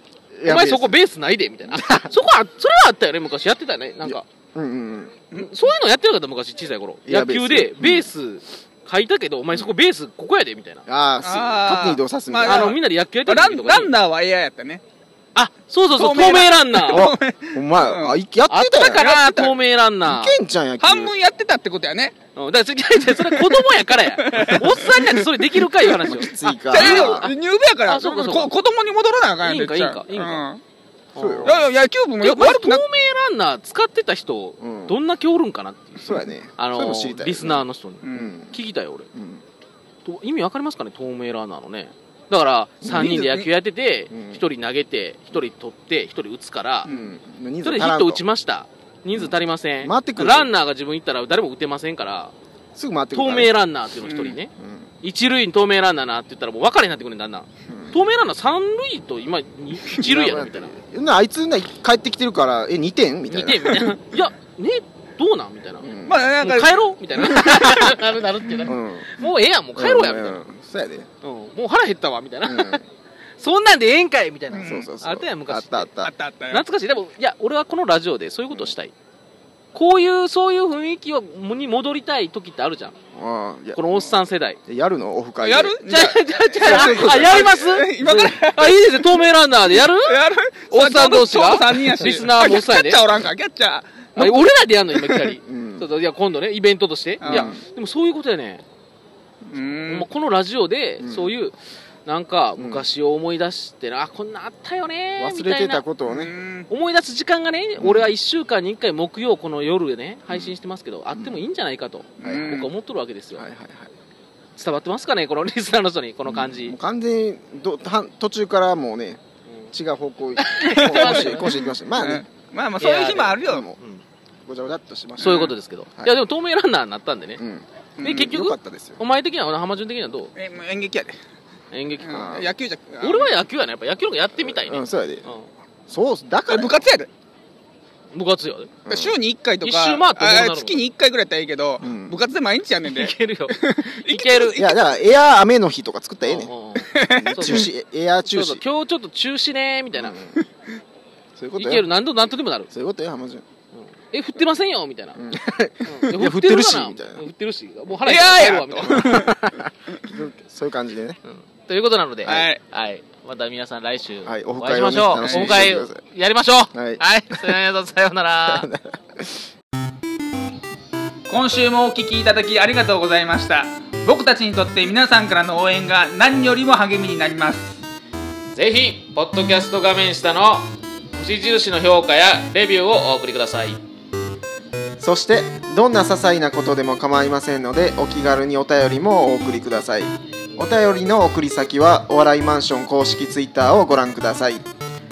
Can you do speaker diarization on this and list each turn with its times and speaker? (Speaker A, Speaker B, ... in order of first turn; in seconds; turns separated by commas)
Speaker A: 0.3-1.0, Speaker B: 0.5-4.2, Speaker A: 1.7-2.1, Speaker A: 4.0-5.2, Speaker B: 5.3-10.8, Speaker A: 7.0-8.1, Speaker A: 10.9-12.8, Speaker C: 11.2-14.8, Speaker B: 12.4-13.9, Speaker B: 15.3-17.1, Speaker C: 16.0-18.2, Speaker A: 16.9-19.0, Speaker B: 18.5-20.4, Speaker C: 18.9-19.6, Speaker A: 20.0-21.1, Speaker C: 20.8-22.1, Speaker B: 22.4-27.3, Speaker C: 23.0-25.2, Speaker C: 25.8-30.6, Speaker A: 26.0-27.3, Speaker B: 27.9-28.5, Speaker B: 29.4-30.4, Speaker A: 31.1-31.6, Speaker B: 31.1-31.6, Speaker C: 31.4-32.8, Speaker B: 32.2-39.1, Speaker A: 34.6-35.0, Speaker A: 36.0-38.5, Speaker C: 38.0-38.4, Speaker A: 39.1-39.4, Speaker B: 40.0-46.9, Speaker A: 42.8-43.5, Speaker A: 44.1-44.5, Speaker C: 46.9-47.1, Speaker A: 46.9-48.2, Speaker B: 47.6-52.3, Speaker A: 49.1-50.5, Speaker A: 52.8-53.5, Speaker B: 53.1-54.5, Speaker C: 54.0-54.4, Speaker A: 54.6-54.9, Speaker B: 55.0-60.8, Speaker A: 57.7-58.0, Speaker A: 59.9-63.9, Speaker B: 63.3-65.9, Speaker A: 65.8-66.2, Speaker C: 66.0-68.0, Speaker B: 66.4-70.4, Speaker A: 68.6-69.1, Speaker A: 69.8-71.1, Speaker B: 71.2-72.8, Speaker A: 72.4-72.8, Speaker B: 73.4-75.9, Speaker C: 74.5-74.9, Speaker A: 74.6-76.1, Speaker C: 76.0-76.6, Speaker B: 76.5-78.9, Speaker B: 79.7-83.0, Speaker A: 83.1-84.1, Speaker B: 83.7-84.6, Speaker A: 84.7-85.8, Speaker C: 85.4-95.2, Speaker B: 85.8-93.0, Speaker A: 86.6-87.7, Speaker B: 94.2-98.6, Speaker A: 95.4-95.9, Speaker C: 97.2-97.5, Speaker A: 97.2-97.6, Speaker C: 99.5-100.1, Speaker B: 99.9-101.5, Speaker A: 101.0-101.3, Speaker B: 102.0-105.9, Speaker A: 102.6-102.9, Speaker A: 105.2-106.3, Speaker C: 106.0-106.7, Speaker B: 106.7-113.5, Speaker A: 107.8-108.1, Speaker A: 110.3-110.5, Speaker A: 111.1-111.4, Speaker C: 112.2-112.7, Speaker A: 112.2-112.7, Speaker A: 113.4-113.9, Speaker B: 114.6-116.8, Speaker A: 116.2-122.2, Speaker B: 120.4-121.6, Speaker C: 120.7-123.7, Speaker B: 122.8-124.0, Speaker A: 123.5-123.8, Speaker A: 124.5-126.1, Speaker C: 125.2-125.5, Speaker B: 125.2-127.4, Speaker A: 127.4-129.0, Speaker C: 128.0-128.3, Speaker B: 128.0-130.3, Speaker C: 130.3-131.2, Speaker B: 131.7-132.4, Speaker C: 132.0-133.3, Speaker A: 132.1-132.5, Speaker B: 133.0-135.5, Speaker A: 134.3-135.3, Speaker A: 135.9-136.9, Speaker C: 136.5-137.1, Speaker B: 138.1-138.7, Speaker A: 138.9-139.2, Speaker C: 138.9-144.8, Speaker B: 139.6-140.8, Speaker A: 141.8-142.2, Speaker B: 142.8-144.8, Speaker A: 144.6-148.6, Speaker B: 146.2-147.7, Speaker C: 146.8-147.7, Speaker B: 148.3-150.2, Speaker A: 150.0-150.4, Speaker A: 151.4-151.9, Speaker B: 151.6-152.7, Speaker A: 152.7-153.4, Speaker B: 153.8-155.2, Speaker A: 155.1-157.2, Speaker B: 155.8-159.6, Speaker C: 158.0-159.4, Speaker A: 158.8-161.2, Speaker B: 161.3-168.7, Speaker C: 162.2-162.6, Speaker A: 164.2-166.0, Speaker C: 165.2-165.6, Speaker A: 166.7-167.0, Speaker A: 168.5-169.5, Speaker C: 171.3-177.8, Speaker B: 178.5-183.8, Speaker A: 185.0-194.6